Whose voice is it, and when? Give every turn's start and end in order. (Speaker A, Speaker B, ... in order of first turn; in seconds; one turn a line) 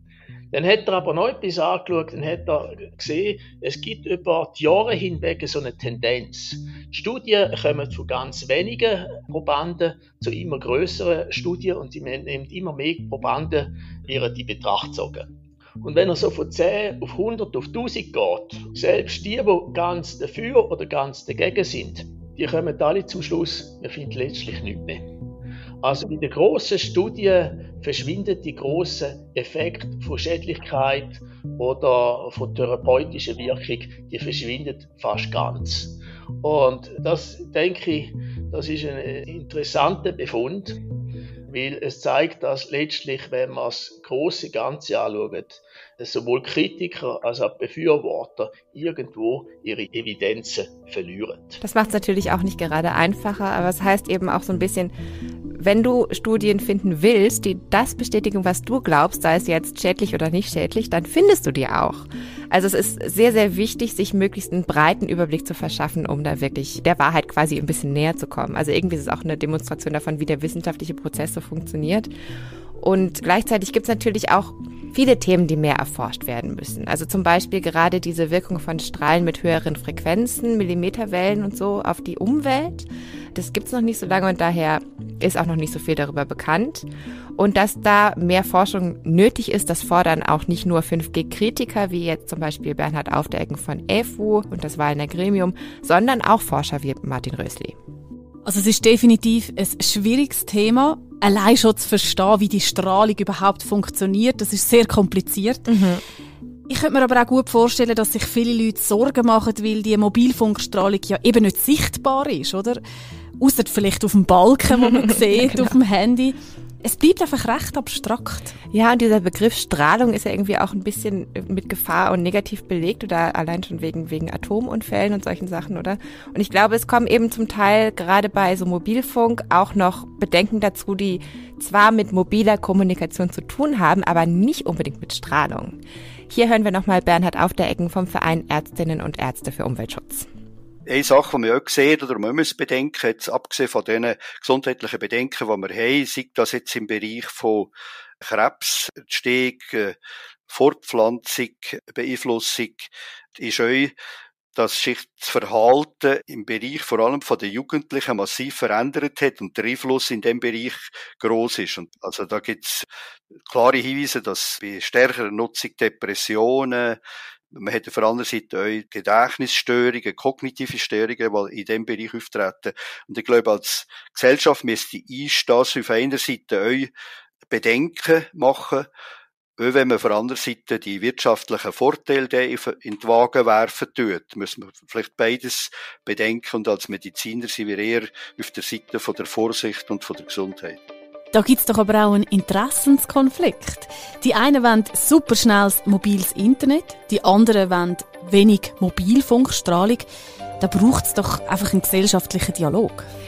Speaker A: 0.5-25.1
Speaker A: 25.8-40.8
Speaker A: 41.5-51.6
Speaker B: 51.6-54.9
Speaker B: 55.5-72.1
Speaker B: 72.8-97.8
Speaker C: 98.4-105.7
Speaker B: 105.7-106.0
Speaker C: 106.7-112.8
Speaker C: 113.4-118.5
Speaker B: 115.1-115.7
Speaker B: 118.7-135.8
Speaker B: 136.3-140.3
Speaker D: 140.9-150.0
Speaker D: 150.5-153.9
Speaker D: 154.5-162.9
Speaker D: 163.5-167.0
Speaker D: 167.5-176.9
Speaker D: 177.5-178.9
Speaker D: 179.6-190.8
Speaker C: 191.3-200.0
Speaker C: 200.6-203.1